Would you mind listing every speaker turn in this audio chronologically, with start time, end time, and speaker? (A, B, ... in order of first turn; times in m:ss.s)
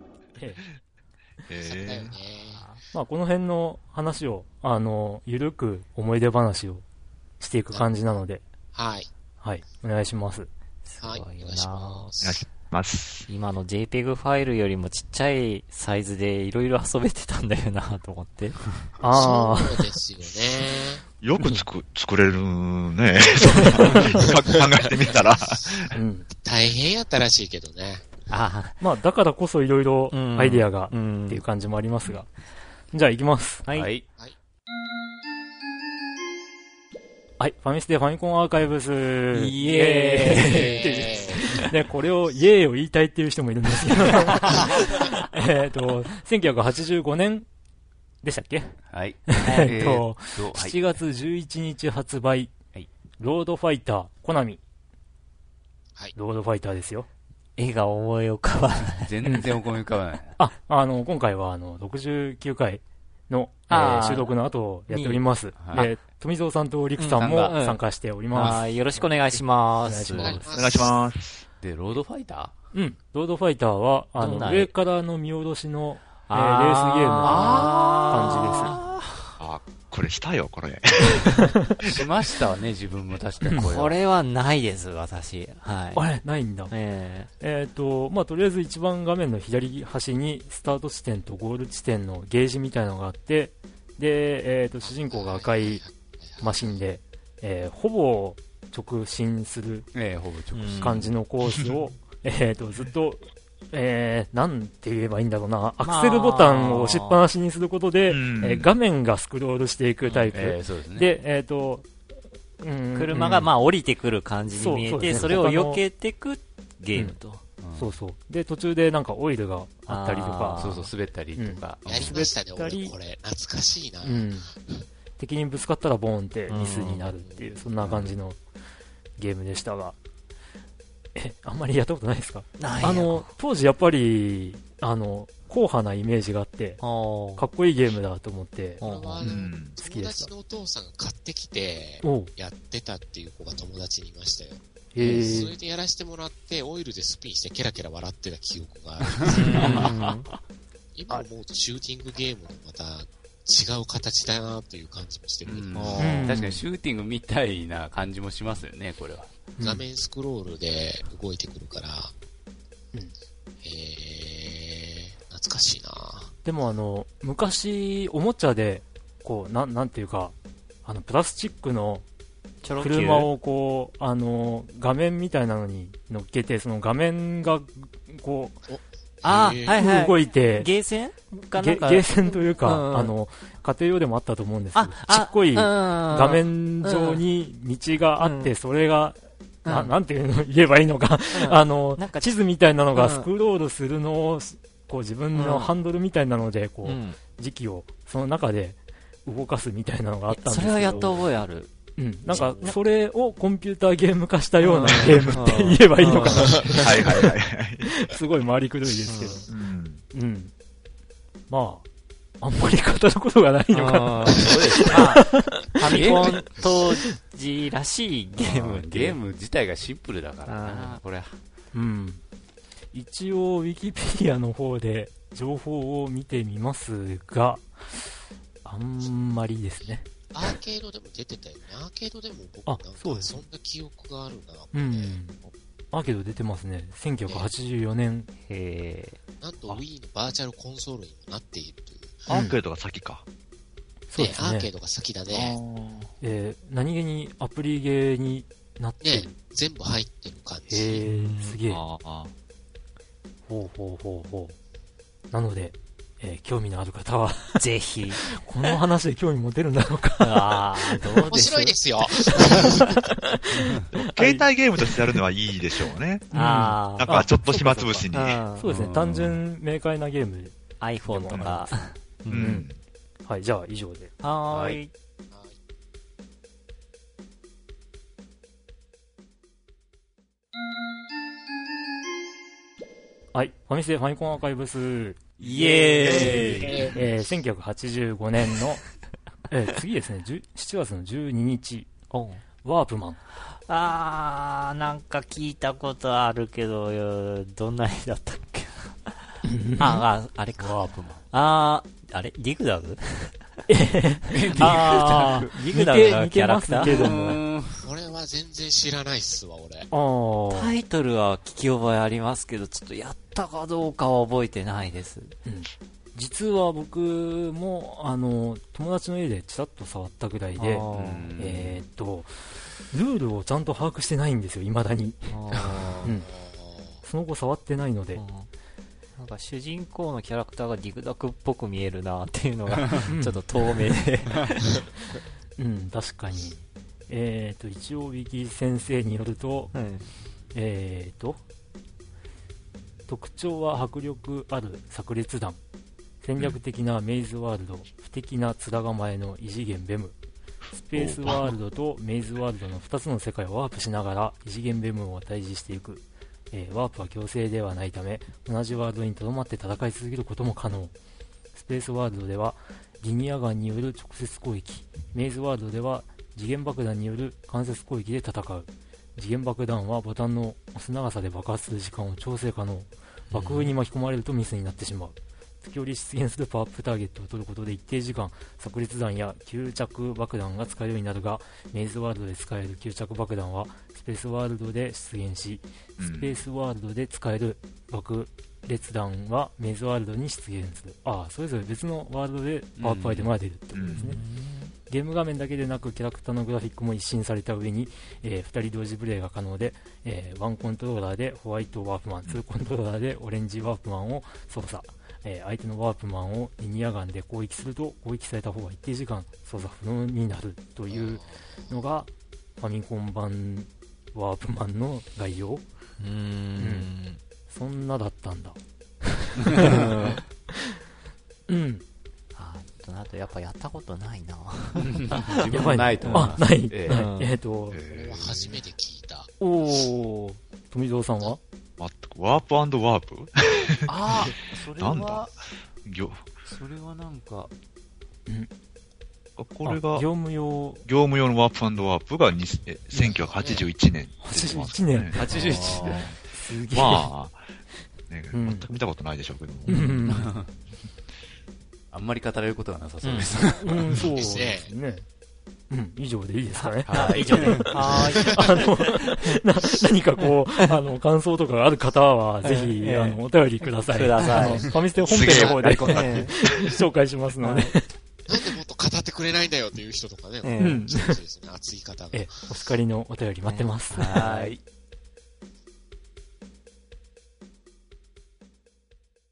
0:00.4-0:00.7 A
0:01.5-0:02.2 B
0:01.6-0:02.6 C
0:02.5-0:02.8 D
0:02.9-0:06.8 A
0:07.4-0:08.4 A
0:08.7-0:09.1 C
0:09.4-0:10.5 A
0:10.9-0:12.1 D
0:11.0-0:12.4 C
0:12.2-0:13.3 B
0:13.3-0:18.6 D
0:19.0-0:19.9 A
0:19.0-0:21.0 C
0:21.2-0:25.9 B
0:21.4-0:21.6 A
0:23.6-0:24.0 A
0:24.2-0:25.8 C
0:25.9-0:26.3 A
0:26.4-0:28.0 C
0:28.3-0:28.8 D
0:28.8-0:32.3 A
0:30.1-0:31.4 D
0:32.9-0:33.6 A
0:33.6-0:33.9 D
0:33.7-0:34.1 E
0:37.4-0:47.4 A
0:39.3-0:40.9 D
0:40.4-0:41.5 C
0:48.2-0:48.8 A
0:48.9-0:50.8 E
0:49.3-0:52.5 A
0:49.4-0:49.7 D
0:53.2-0:54.6 A
0:56.1-0:57.1 A
0:57.6-0:59.1 D
0:58.9-1:00.4 E
0:59.2-0:59.5 A
1:00.4-1:09.1 A
1:03.7-1:04.3 D
1:04.9-1:05.9 D
1:05.6-1:05.9 E
1:07.0-1:07.8 D
1:07.2-1:07.5 E
1:08.3-1:10.5 D
1:09.8-1:10.4 A
1:10.2-1:11.0 C
1:10.5-1:11.4 B
1:11.6-1:12.6 E
1:12.7-1:18.8 A
1:14.2-1:14.7 D
1:16.3-1:19.0 D
1:17.2-1:19.0 E
1:19.4-1:22.0 B
1:21.3-1:21.7 A
1:21.8-1:23.9 E
1:23.4-1:23.7 A
1:23.6-1:26.0 D
1:25.9-1:26.7 A
1:26.7-1:27.3 D
1:27.4-1:35.8 A
1:34.8-1:36.8 C
1:36.4-1:39.9 A
1:39.9-1:41.1 E
1:40.5-1:41.0 D
1:40.8-1:51.9 A
1:45.8-1:47.2 D
1:48.1-1:48.7 B
1:50.3-1:51.1 E
1:52.6-1:53.5 A
1:53.0-1:57.4 D
1:54.6-1:55.8 A
1:56.9-1:57.2 A
1:57.6-1:57.9 E
1:57.8-2:00.7 A
1:59.9-2:00.9 D
2:00.6-2:02.2 E
2:01.3-2:02.9 A
2:01.8-2:04.8 C
2:04.0-2:04.5 A
2:05.2-2:08.4 A
2:06.5-2:07.1 D
2:07.1-2:07.7 C
2:07.8-2:08.2 E
2:09.2-2:10.0 A
2:11.1-2:16.8 A
2:12.6-2:13.3 D
2:16.8-2:17.4 D
2:17.4-2:18.8 A
2:18.8-2:19.3 D
2:18.8-2:29.9 C
2:19.2-2:19.7 B
2:19.8-2:20.3 A
2:22.0-2:22.3 A
2:24.9-2:25.5 A
2:29.2-2:30.0 E
2:29.3-2:30.3 D
2:29.5-2:29.9 A
2:31.0-2:36.2 C
2:35.4-2:39.3 E
2:35.8-2:36.2 D
2:36.0-2:36.6 A
2:39.6-2:39.8 A
2:39.6-2:42.1 C
2:43.6-2:46.3 C
2:46.4-2:50.3 A
2:50.8-2:52.0 A
2:52.6-2:53.3 D
2:52.8-2:58.6 A
2:58.7-2:59.8 C
2:59.2-3:03.1 D
2:59.7-3:00.7 A
3:01.5-3:21.2 A
3:04.7-3:07.2 D
3:08.2-3:08.5 D
3:09.6-3:09.9 D
3:11.3-3:12.3 D
3:12.9-3:13.3 D
3:15.3-3:15.7 D
3:16.8-3:17.2 D
3:20.3-3:21.7 D
3:22.0-3:27.3 A
3:22.3-3:22.8 D
3:24.6-3:26.7 D
3:26.6-3:28.0 B
3:27.8-3:29.4 A
3:29.1-3:29.4 D
3:29.5-3:30.0 B
3:30.1-3:30.5 A
3:31.5-3:31.8 A
3:32.4-3:36.3 A
3:33.7-3:39.2 D
3:34.4-3:35.3 E
3:35.8-3:36.6 E
3:38.3-3:41.4 E
3:40.4-3:41.0 D
3:41.7-3:42.2 A
3:42.9-3:48.1 A
3:48.6-3:50.5 A
3:50.3-3:55.5 C
3:52.6-3:53.4 A
3:54.7-3:55.4 A
3:55.9-3:58.3 A
3:58.4-3:59.2 D
3:59.4-4:02.2 C
4:02.3-4:03.2 B
4:02.3-4:02.6 A
4:04.1-4:04.7 A
4:04.2-4:05.6 C
4:05.3-4:06.1 B
4:06.2-4:09.3 A
4:09.0-4:11.1 C
4:10.7-4:11.8 A
4:11.1-4:11.6 D
4:11.7-4:12.3 B
4:13.5-4:14.6 A
4:15.3-4:17.6 A
4:17.6-4:18.4 D
4:18.2-4:21.2 A
4:20.2-4:21.8 D
4:21.3-4:23.0 C
4:22.2-4:24.5 A
4:23.9-4:26.3 B
4:26.3-4:27.1 D
4:26.3-4:30.6 A
4:26.9-4:28.4 B
4:28.1-4:28.6 D
4:28.6-4:29.4 E
4:30.8-4:32.5 D
4:31.1-4:32.7 A
4:31.3-4:31.6 B
4:32.3-4:32.7 B
4:33.2-4:34.1 A
4:34.2-4:34.9 D
4:34.5-4:34.8 E
4:43.3-4:45.2 A
4:45.4-4:46.9 D
4:45.4-4:46.9 E
4:46.0-4:48.8 A
4:46.1-4:47.0 C
4:49.5-4:51.9 A
4:52.1-4:52.4 D
4:52.6-4:53.2 A
4:53.7-4:59.2 D
4:59.4-5:00.0 A
4:59.8-5:03.4 D
5:00.6-5:01.2 E
5:03.7-5:07.4 A
5:04.3-5:05.6 E
5:04.5-5:07.2 D
5:06.8-5:07.9 E
5:07.8-5:09.9 C
5:09.9-5:10.8 A
5:10.5-5:15.3 D
5:15.4-5:20.8 A
5:20.6-5:21.3 D
5:20.9-5:21.8 E
5:21.4-5:22.3 A
5:22.9-5:25.3 A
5:25.3-5:26.1 D
5:26.0-5:26.3 A
5:26.0-5:27.0 C
5:27.0-5:28.2 A
5:28.2-5:28.5 D
5:29.2-5:34.7 D
5:33.1-5:33.4 A
5:34.3-5:34.6 E
5:35.6-5:39.7 A
5:39.7-5:40.0 D
5:40.5-5:41.4 A
5:43.1-5:45.6 A
5:46.2-5:50.1 A
5:50.7-6:00.9 A
5:50.9-5:51.5 B
6:01.5-6:34.2 A
6:13.3-6:13.7 D
6:26.0-6:26.4 B
6:32.8-6:33.3 E
6:33.7-6:34.0 B
6:33.9-6:34.7 D
6:34.9-6:55.6 A
6:50.9-6:51.7 C
6:56.0-6:57.2 D
6:56.6-6:56.9 A
6:57.5-7:00.6 A
6:59.6-7:00.2 D
7:01.5-7:01.8 A
7:02.4-7:06.4 D
7:04.8-7:07.0 E
7:05.5-7:07.8 A
7:06.9-7:07.3 D
7:07.7-7:08.6 E
7:07.9-7:09.3 C
7:09.4-7:11.4 A
7:11.8-7:13.9 B
7:13.9-7:15.3 E
7:14.8-7:15.3 B
7:15.8-7:16.3 B
7:16.4-7:17.5 E
7:19.4-7:20.1 B
7:19.6-7:20.8 A
7:20.8-7:25.2 B
7:23.2-7:23.6 C
7:24.2-7:25.4 A
7:25.1-7:26.1 E
7:25.3-7:26.0 D
7:26.3-7:27.1 A
7:26.7-7:27.4 B
7:28.1-7:30.0 B
7:28.3-7:28.7 A
7:29.6-7:30.3 A
7:30.0-7:30.5 E
7:31.9-7:34.0 E
7:33.0-7:33.4 D
7:33.6-7:35.0 A
7:34.1-7:34.7 C
7:35.7-7:47.9 A
7:36.6-7:39.4 D
7:36.9-7:37.8 E
7:38.1-7:38.4 C
7:40.2-7:40.8 D
7:42.4-7:44.7 D
7:44.4-7:44.7 E
7:45.0-7:45.5 C
7:45.0-7:46.5 B
7:45.8-7:46.3 D
7:47.4-7:47.7 D
7:48.3-7:52.4 C
7:50.4-7:50.8 D
7:50.6-7:51.2 A
7:52.1-7:54.3 A
7:53.5-7:54.5 D
7:53.9-7:54.6 E